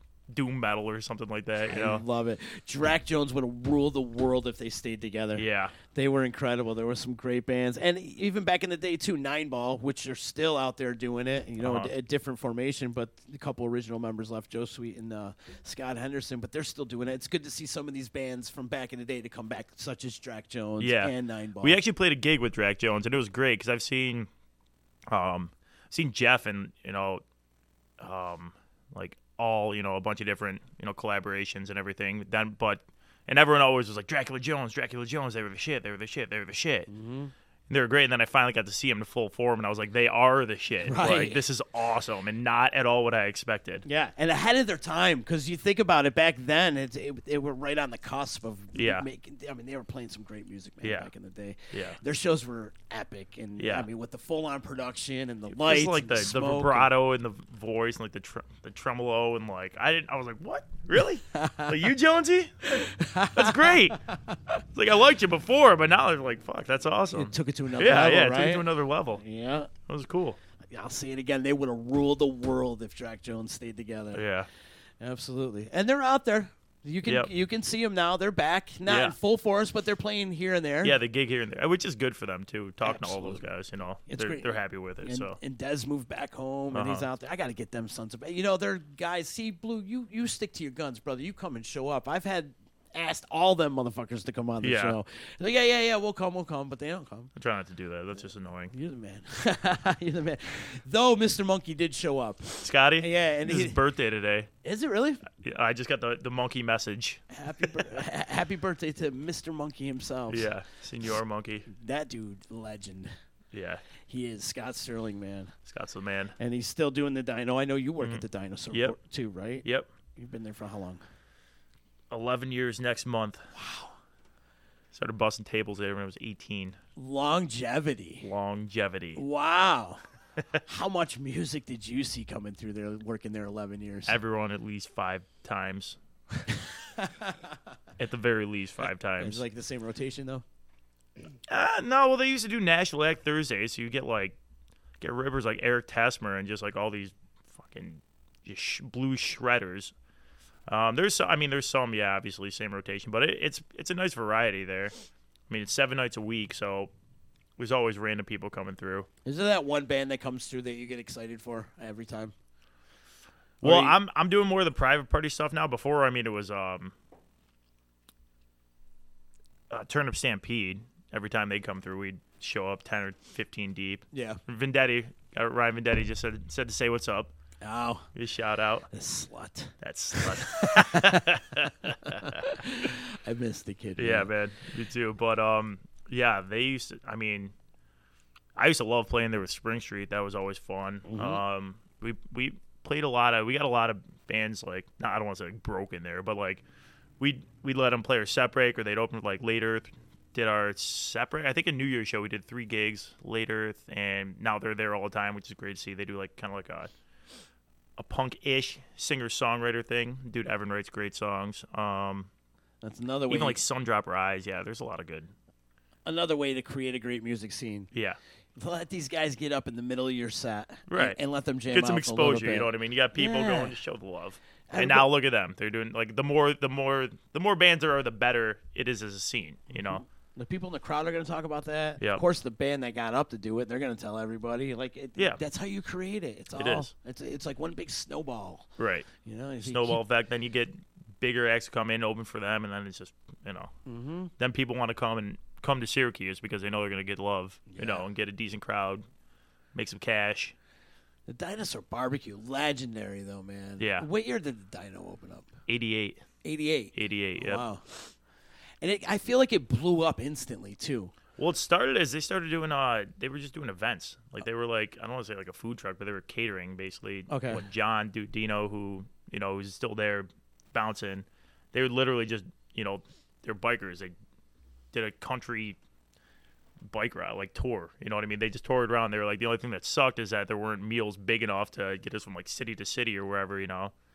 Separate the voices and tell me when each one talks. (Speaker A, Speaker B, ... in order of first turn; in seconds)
Speaker A: 0.3-2.0, 5.3-5.7, 11.6-11.9, 20.8-24.3, 25.1-27.2, 28.0-36.9, 37.7-43.8, 48.7-49.0, 50.8-51.1, 51.7-52.0, 53.6-53.9, 55.5-64.0, 64.7-69.2, 69.9-70.4, 74.1-74.5, 78.9-79.2, 80.8-85.4, 86.7-87.0, 94.6-95.0, 97.4-98.7, 102.6-104.5, 105.4-107.6, 110.3-111.7, 113.5-113.8, 115.7-116.3, 118.0-119.0, 122.1-123.5, 124.9-126.8, 128.2-129.2, 134.1-136.0, 138.0-139.4, 141.5-144.4, 145.0-149.9, 150.7-154.9, 155.5-156.9, 157.6-159.1, 163.6-166.9, 169.7-177.3, 178.1-178.9, 179.8-182.5, 184.0-187.5, 188.6-196.6, 197.2-206.9, 208.0-212.3, 213.3-215.3, 217.9-218.2, 220.9-221.2, 221.7-230.0, 236.6-236.9, 238.8-239.1, 239.6-243.7, 244.4-249.0, 249.7-250.5, 253.8-254.1, 255.7-256.2, 256.9-257.6, 261.4-274.1, 274.9-275.8, 276.9-283.9
Speaker B: 1.7-21.8, 36.9-37.3, 40.9-41.4, 43.8-56.9, 61.3-61.7, 62.7-64.3, 67.1-69.7, 70.7-74.2, 75.0-81.0, 82.8-83.4, 84.1-97.3, 98.7-103.8, 104.6-105.2, 107.3-110.5, 111.7-113.1, 114.0-115.5, 116.4-119.6, 120.2-121.0, 123.5-123.9, 127.0-128.2, 129.2-130.0, 130.6-134.2, 137.0-137.3, 139.2-140.4, 159.2-162.3, 163.6-163.9, 174.1-174.4, 177.6-178.1, 178.9-181.3, 181.8-184.3, 191.1-191.4, 212.8-213.6, 216.1-217.9, 218.6-223.8, 224.7-225.1, 229.7-238.7, 239.2-240.0, 243.8-244.3, 247.7-248.1, 251.3-255.5, 256.4-258.1, 258.8-261.1, 267.3-267.6